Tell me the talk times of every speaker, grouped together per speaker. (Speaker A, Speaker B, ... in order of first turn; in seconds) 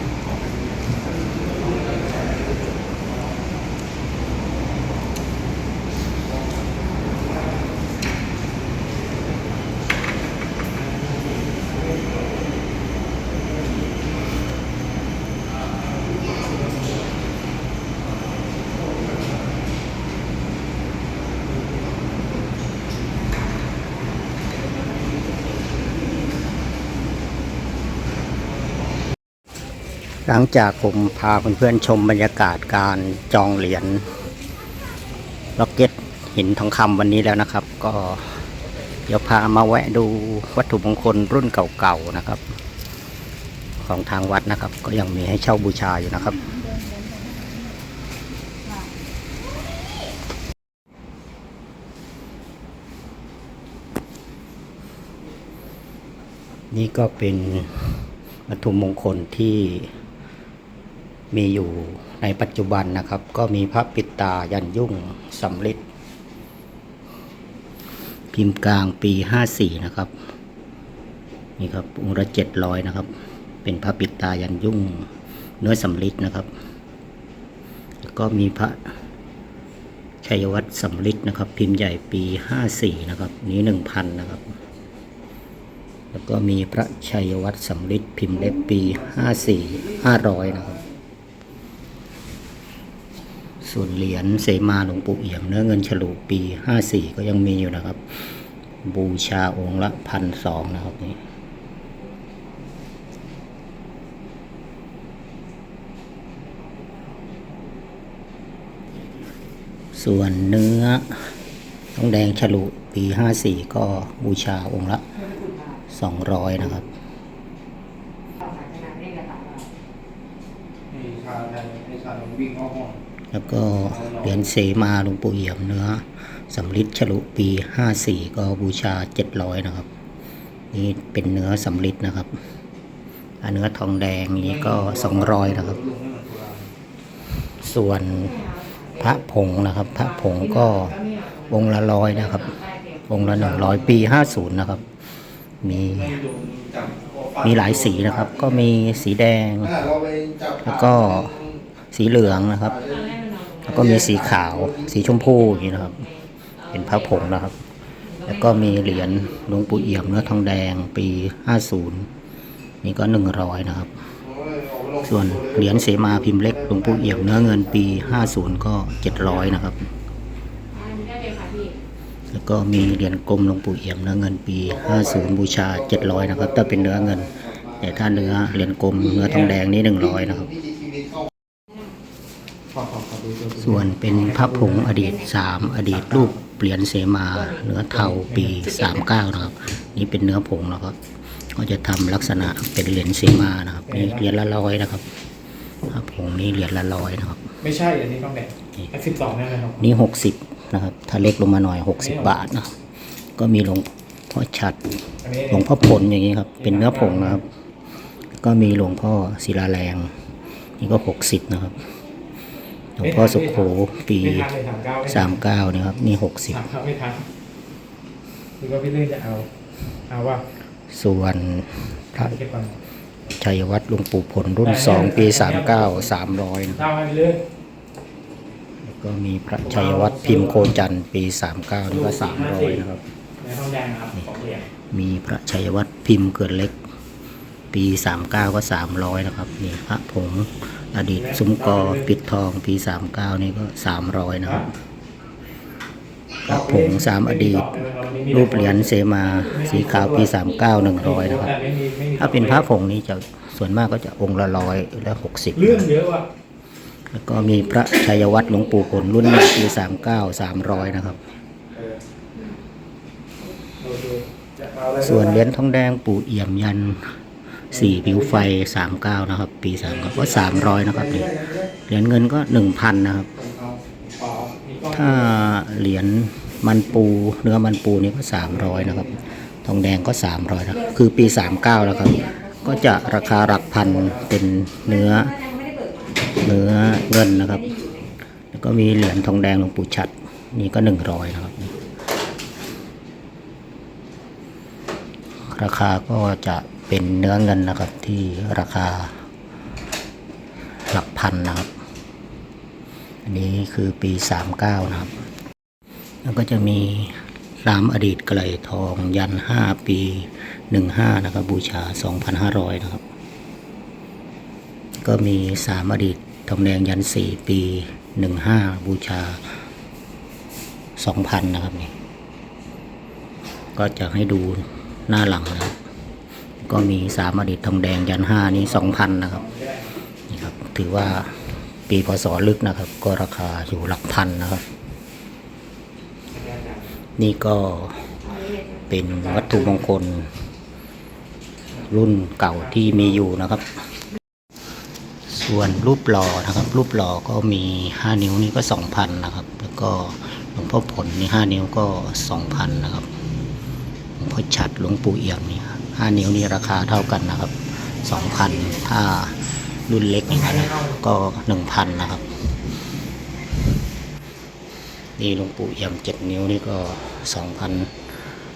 Speaker A: 30.3-34.1, 35.6-38.4, 39.1-42.4, 43.8-46.4, 56.7-59.9, 61.3-65.8, 68.3-70.1, 71.6-73.1, 73.6-75.1, 75.6-76.5, 78.0-78.9, 80.2-84.5, 86.1-90.8, 93.6-98.0, 98.8-101.2, 110.0-111.1, 112.0-115.0, 115.9-116.9, 123.3-129.9, 130.7-132.3, 133.4-135.8, 137.6-144.8, 145.6-146.2, 147.4-149.8, 150.6-151.3, 151.9-152.8, 153.6-156.1, 156.7-157.6, 158.2-162.1, 162.8-163.9, 165.0-169.9, 172.3-180.5, 183.6-191.0, 191.5-195.0, 195.9-197.4, 199.8-202.7, 203.4-204.8, 205.5-207.4, 208.4-210.1, 210.8-211.8, 213.0-214.5, 215.0-216.7, 220.9-222.4, 223.3-226.9, 228.8-233.0, 234.9-236.8, 237.7-244.7, 246.5-251.6, 252.2-256.0, 257.1-261.2, 265.0-267.1, 267.7-273.3, 274.9-285.5, 286.4-287.9, 288.5-291.7, 295.4-299.1, 300.9-301.7, 303.3-305.1, 306.2-313.0, 315.0-319.4, 321.0-321.9, 323.8-325.8, 326.6-329.4, 330.3-334.6, 337.2-338.1, 338.8-340.3, 341.9-343.6, 345.3-353.1, 354.2-362.3, 365.2-367.9
Speaker B: 120.9-122.9, 134.7-136.5, 149.9-150.6, 164.5-164.8, 182.9-183.5
Speaker C: 197.6-199.8, 214.4-215.1, 216.6-217.2, 218.6-219.5, 220.1-220.4, 222.4-222.7, 225.0-225.5, 226.9-227.4, 233.4-234.7, 247.1-248.3, 251.6-252.2, 255.8-256.2, 263.8-264.2, 274.2-275.1, 329.4-329.8, 336.4-336.7